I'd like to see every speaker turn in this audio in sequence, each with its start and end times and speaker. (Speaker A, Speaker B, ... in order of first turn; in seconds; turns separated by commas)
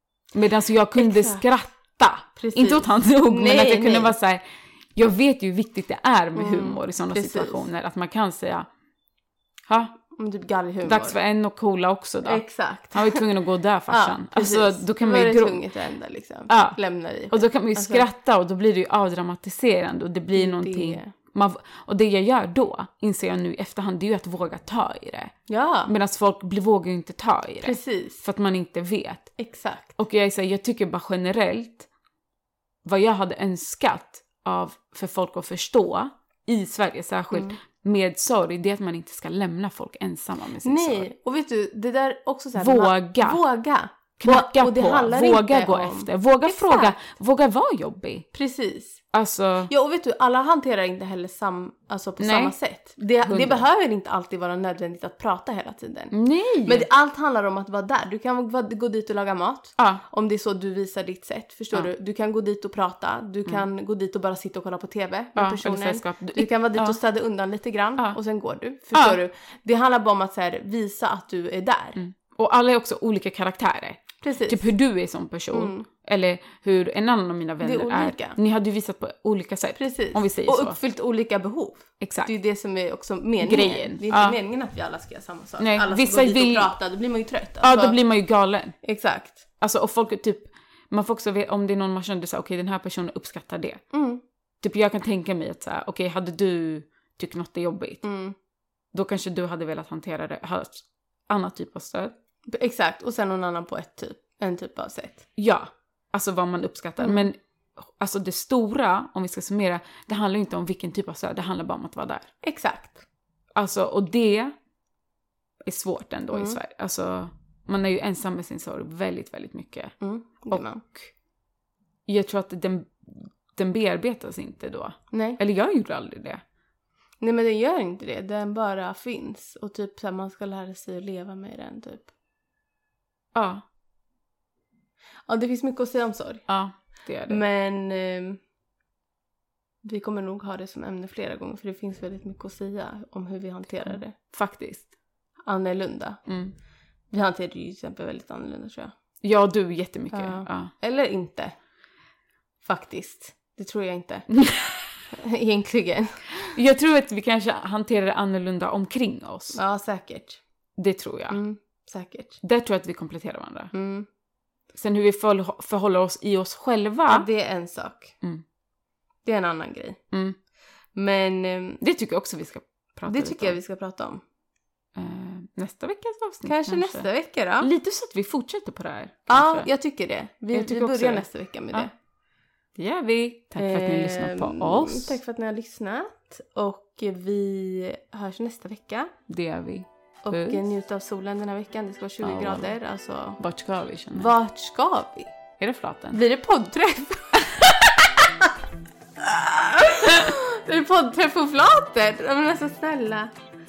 Speaker A: 0.3-4.4, Speaker B: 0.9-1.4, Speaker B: 2.4-4.1, Speaker A: 5.0-8.7, Speaker B: 6.3-7.7, Speaker A: 9.7-9.9, Speaker B: 10.1-11.2, Speaker A: 10.8-12.4, Speaker B: 12.2-13.2, Speaker A: 12.9-15.6, Speaker B: 13.9-18.1, Speaker A: 16.5-16.8, Speaker A: 17.3-25.3, Speaker B: 20.3-21.1, Speaker B: 25.5-25.9, Speaker A: 25.9-29.3, Speaker B: 27.6-28.2, Speaker B: 29.4-29.9, Speaker A: 29.9-31.9, Speaker A: 32.8-41.1, Speaker B: 40.6-47.0, Speaker A: 42.5-43.4, Speaker A: 44.2-48.3, Speaker B: 48.3-49.0, Speaker A: 49.1-49.7, Speaker B: 49.7-56.1, Speaker A: 52.2-52.5, Speaker A: 53.2-53.6, Speaker A: 56.1-56.9, Speaker B: 56.6-72.0, Speaker A: 65.3-67.0, Speaker A: 68.9-69.2, Speaker A: 72.0-80.8, Speaker B: 74.2-74.7, Speaker B: 75.5-75.8, Speaker B: 77.6-78.4, Speaker B: 79.8-88.0, Speaker A: 82.0-82.3, Speaker A: 83.4-84.4, Speaker A: 85.6-86.7, Speaker A: 87.6-88.8, Speaker B: 88.8-89.4, Speaker A: 89.6-93.8, Speaker B: 93.9-94.2, Speaker A: 94.6-98.0, Speaker B: 98.0-98.3, Speaker A: 98.9-102.1, Speaker B: 102.5-105.2, Speaker A: 105.4-107.4, Speaker B: 107.0-107.3, Speaker A: 108.0-112.3, Speaker B: 112.4-113.0, Speaker A: 113.5-114.5, Speaker A: 115.7-119.9, Speaker B: 116.3-116.6, Speaker B: 120.0-120.8, Speaker A: 120.5-121.1, Speaker A: 122.1-126.4, Speaker B: 125.1-125.4, Speaker B: 127.2-132.1, Speaker A: 133.3-133.6, Speaker B: 135.3-136.4, Speaker A: 136.5-137.4, Speaker B: 137.3-138.4, Speaker B: 139.8-144.1, Speaker A: 143.9-144.9, Speaker B: 145.4-146.2, Speaker A: 146.3-146.5, Speaker B: 147.1-148.9, Speaker A: 149.2-150.7, Speaker B: 150.1-151.5, Speaker B: 152.6-154.3, Speaker A: 154.3-154.9, Speaker B: 155.1-156.5, Speaker A: 156.4-159.6, Speaker B: 159.5-160.4, Speaker A: 160.8-161.4, Speaker B: 161.3-162.4, Speaker A: 162.4-163.7, Speaker B: 163.7-164.1, Speaker A: 164.7-167.2, Speaker B: 167.1-168.1, Speaker B: 169.2-170.0, Speaker A: 170.1-170.4, Speaker B: 170.9-171.8, Speaker A: 171.8-173.6, Speaker B: 173.1-174.2, Speaker A: 174.9-177.1, Speaker B: 176.4-177.7, Speaker A: 177.6-179.7, Speaker B: 179.3-181.9, Speaker A: 180.5-181.9, Speaker A: 182.8-185.2, Speaker B: 183.6-189.1, Speaker A: 189.3-190.6, Speaker B: 190.2-193.4, Speaker A: 192.2-192.7, Speaker A: 193.4-194.3, Speaker B: 194.1-195.3, Speaker A: 195.6-196.2, Speaker B: 196.1-197.4, Speaker B: 198.2-198.5, Speaker B: 199.2-203.3